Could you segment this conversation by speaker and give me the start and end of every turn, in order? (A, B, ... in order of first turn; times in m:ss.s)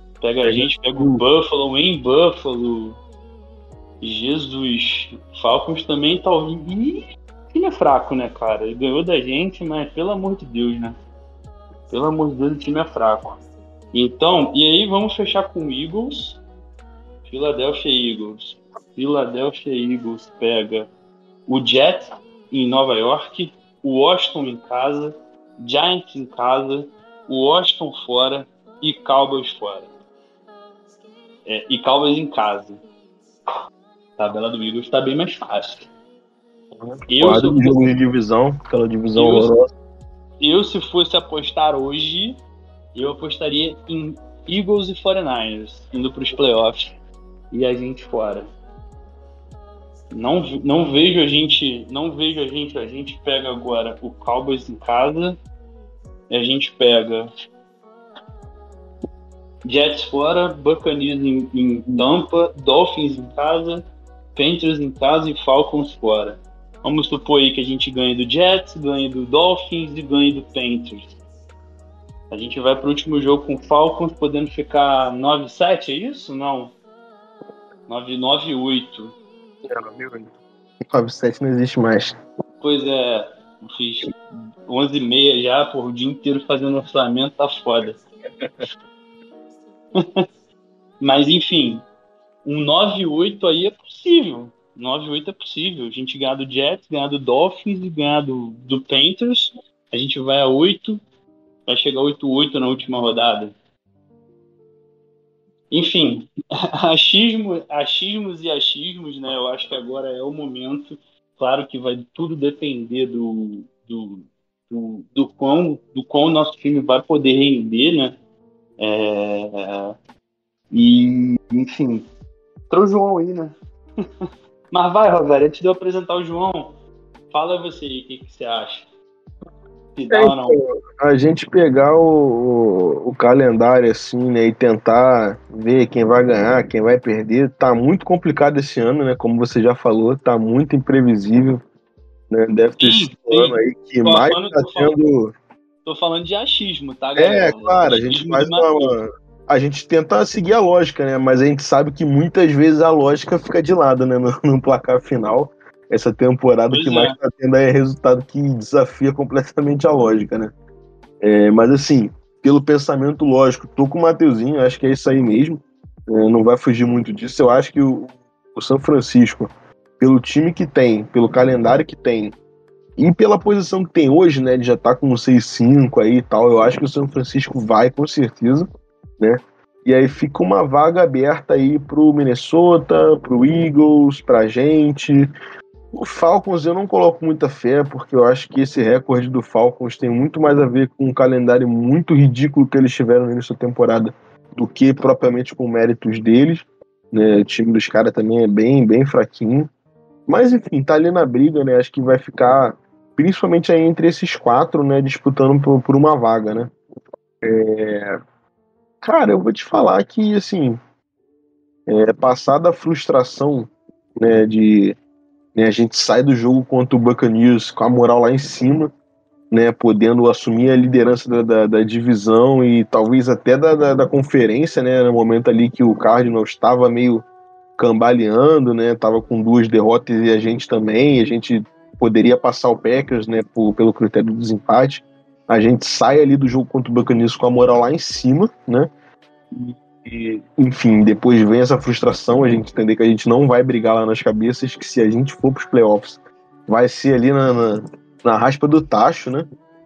0:00.2-0:03.0 A
0:00.4-0:01.2 B
0:04.0-0:11.0 A
0:11.9-0:13.4 A
0:13.9-0:16.4 A
0:17.2-0:20.9 A
0:21.5-0:29.9 A
0:31.4-0:32.8 A
0:34.2-0:35.9 A
0:36.7-0:39.7 B
0:37.1-0:38.0 A
0:39.2-0:39.5 A
0:40.4-0:42.4 A
0:42.9-0:46.9 A
0:47.5-0:48.5 A
0:50.1-0:55.4 A
0:56.3-0:57.3 A
0:59.6-1:11.2 A
1:12.3-1:16.8 A
1:17.9-1:19.2 A
1:19.6-1:20.3 B
1:20.9-1:22.2 B
1:22.6-1:28.0 A
1:31.0-1:31.8 A
1:32.4-1:41.0 A
1:41.7-1:43.5 A
1:45.7-1:46.3 A
1:46.8-1:58.2 A
1:58.8-1:59.9 A
2:00.7-2:02.0 A
2:02.7-2:03.5 A
2:04.7-2:06.8 A
2:07.3-2:08.9 A
2:10.0-2:10.6 A
2:10.1-2:21.6 B
2:22.3-2:25.3 B
2:22.8-2:25.0 A
2:25.8-2:29.0 A
2:27.2-2:40.5 B
2:36.7-2:37.2 A
2:41.2-2:52.4 B
2:53.0-2:58.7 B
2:59.2-3:05.3 B
3:05.9-3:19.7 B
3:20.3-3:26.7 B
3:27.4-3:28.2 B
3:29.0-3:30.8 B
3:31.9-3:35.0 B
3:35.5-3:38.9 B
3:39.5-3:47.2 B
3:47.8-3:58.9 B
3:59.5-4:09.5 B